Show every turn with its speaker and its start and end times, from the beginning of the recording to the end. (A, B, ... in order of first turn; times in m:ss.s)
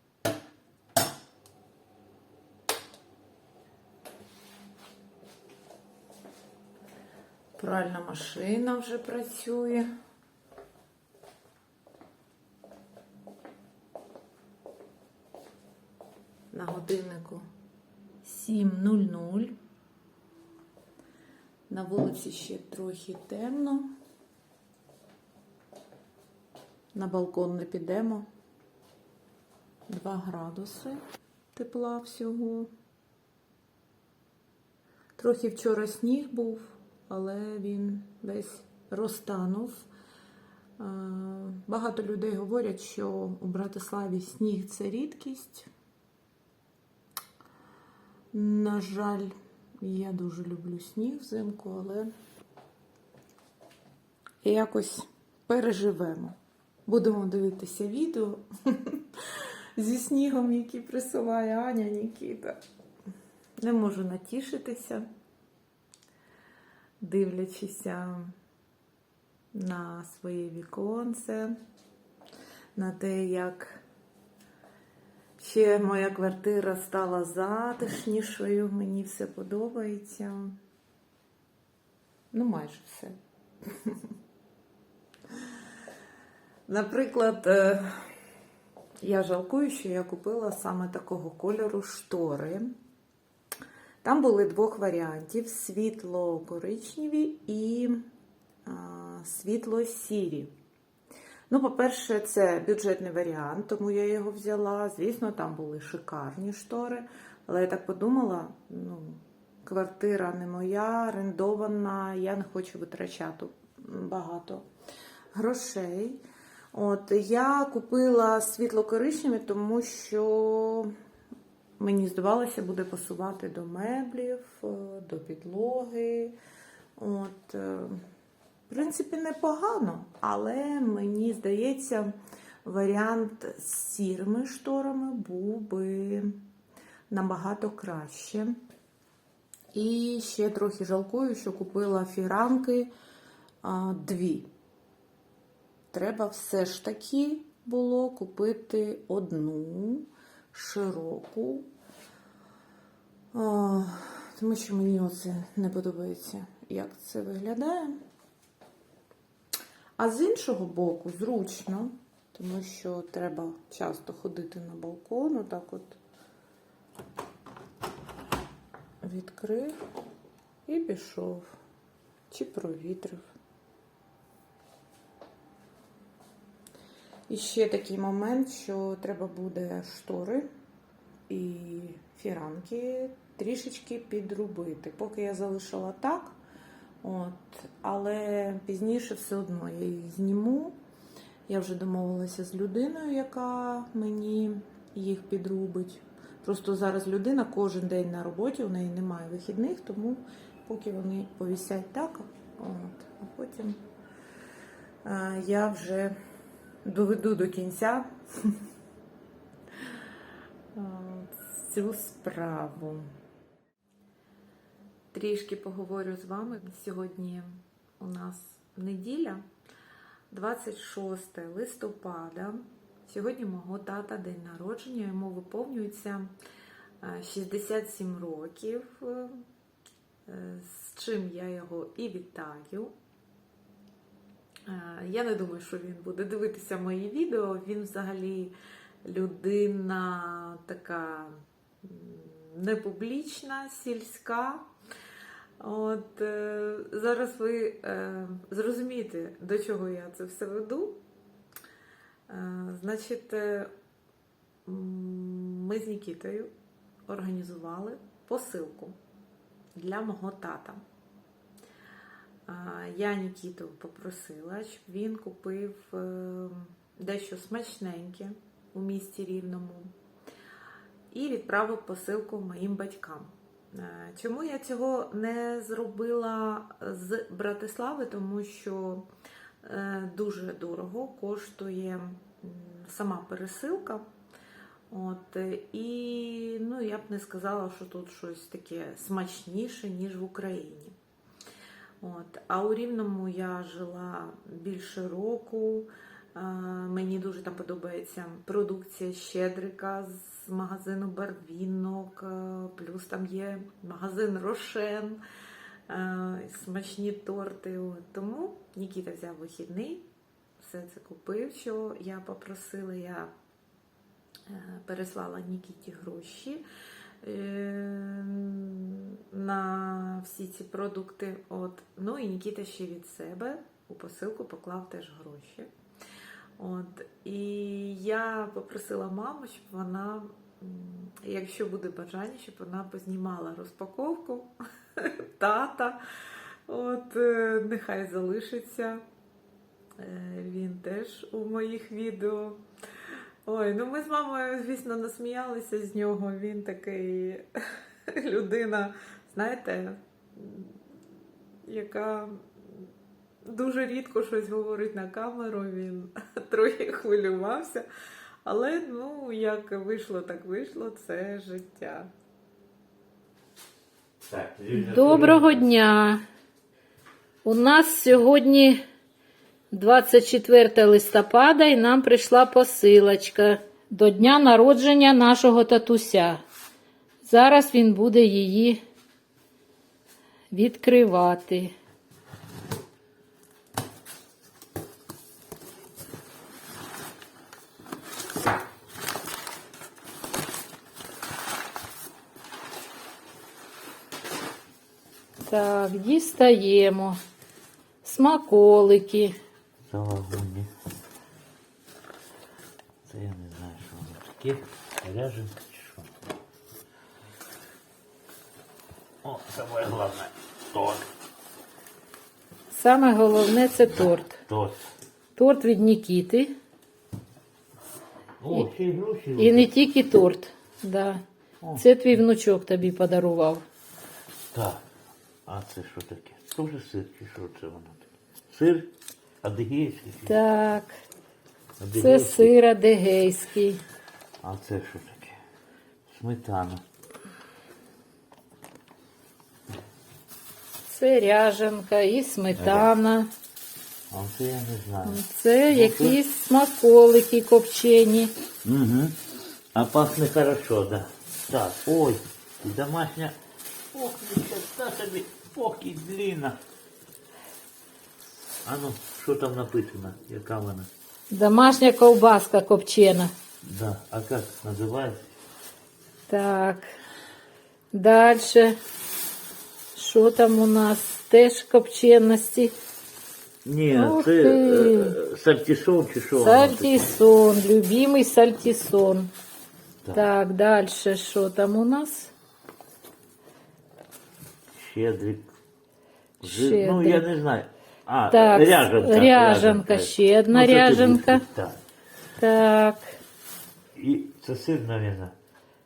0:07.6-0:09.9 A
0:16.5-0:17.4 A
0:18.2-0:19.5 A
0:21.7-0:23.9 A
0:26.9-0:28.3 A
0:29.9-0:31.0 A
0:31.5-0:32.7 A
0:35.2-0:39.9 A
0:40.8-0:45.7 A
0:48.3-0:52.1 A
0:54.4-0:56.4 A
0:56.9-0:59.0 A
0:59.8-1:02.6 A
1:03.6-1:05.0 A
1:07.0-1:08.3 A
1:09.5-1:11.5 A
1:12.8-1:13.8 A
1:15.4-1:20.5 A
1:22.3-1:23.2 A
1:26.7-1:28.0 A
1:29.0-1:32.7 A
1:34.0-1:38.0 A
1:38.6-1:40.5 A
1:41.5-1:54.6 A
1:55.3-1:56.2 A
1:56.7-2:00.9 A
2:01.8-2:06.3 A
2:07.0-2:08.0 A
2:08.7-2:12.1 A
2:12.6-2:16.4 A
2:17.1-2:18.6 A
2:19.7-2:22.9 A
2:23.6-2:24.5 A
2:25.9-2:31.7 A
2:33.3-2:38.0 A
2:40.0-2:46.0 A
2:49.0-2:49.7 A
2:50.6-2:51.5 A
2:52.3-2:53.2 A
2:57.3-3:00.5 A
3:01.3-3:06.4 A
3:07.0-3:10.8 A
3:11.5-3:23.8 A
3:25.0-3:26.2 A
3:26.8-3:28.5 A
3:30.7-3:33.1 A
3:35.1-3:39.4 A
3:40.3-3:46.3 A
3:47.0-3:49.4 A
3:50.3-3:52.9 A
3:54.7-4:04.6 A
4:05.6-4:11.0 A
4:12.3-4:13.7 A
4:14.6-4:16.5 A
4:17.1-4:19.0 A
4:19.8-4:20.8 A
4:22.5-4:29.9 A
4:31.1-4:39.0 A
4:39.6-4:44.0 A
4:44.9-4:50.9 A
4:52.0-5:05.2 A
5:05.9-5:10.0 A
5:10.6-5:13.3 A
5:14.5-5:16.6 A
5:17.2-5:25.7 A
5:26.6-5:36.0 A
5:36.7-5:39.0 A
5:40.0-5:42.6 A
5:43.4-5:47.4 A
5:48.1-5:50.7 A
5:51.6-5:52.4 A
5:53.4-5:57.8 A
5:58.4-6:02.1 A
6:04.3-6:05.6 B
6:04.7-6:06.2 C
6:07.4-6:08.8 C
6:09.7-6:16.4 C
6:17.2-6:18.8 C
6:20.5-6:21.7 C
6:35.4-6:37.2 C
6:38.0-6:39.4 C
6:39.9-6:40.7 B
6:43.0-6:46.1 B
6:49.2-6:51.0 B
6:52.7-6:54.4 C
6:54.5-6:54.8 B
6:55.4-6:56.5 C
6:58.4-6:59.7 B
6:59.4-7:01.2 C
7:01.8-7:03.6 C
7:04.5-7:04.8 B
7:05.4-7:08.9 B
7:09.4-7:10.3 B
7:10.2-7:10.9 C
7:11.8-7:12.5 B
7:12.0-7:13.8 C
7:14.4-7:15.4 B
7:16.1-7:16.8 B
7:20.9-7:23.3 C
7:22.5-7:22.9 B
7:24.1-7:26.2 B
7:25.0-7:28.3 C
7:28.6-7:29.1 B
7:29.7-7:33.4 B
7:33.9-7:36.6 B
7:38.6-7:40.9 B
7:41.3-7:43.3 C
7:43.6-7:45.2 B
7:46.3-7:46.9 C
7:47.9-7:48.7 C
7:49.9-7:52.7 C
7:53.6-7:57.0 B
7:53.9-7:55.2 C
7:56.4-7:59.3 C
8:00.1-8:02.3 C
8:04.7-8:05.4 B
8:06.4-8:11.8 B
8:06.4-8:07.2 C
8:08.3-8:11.4 C
8:12.4-8:13.2 C
8:13.9-8:15.3 B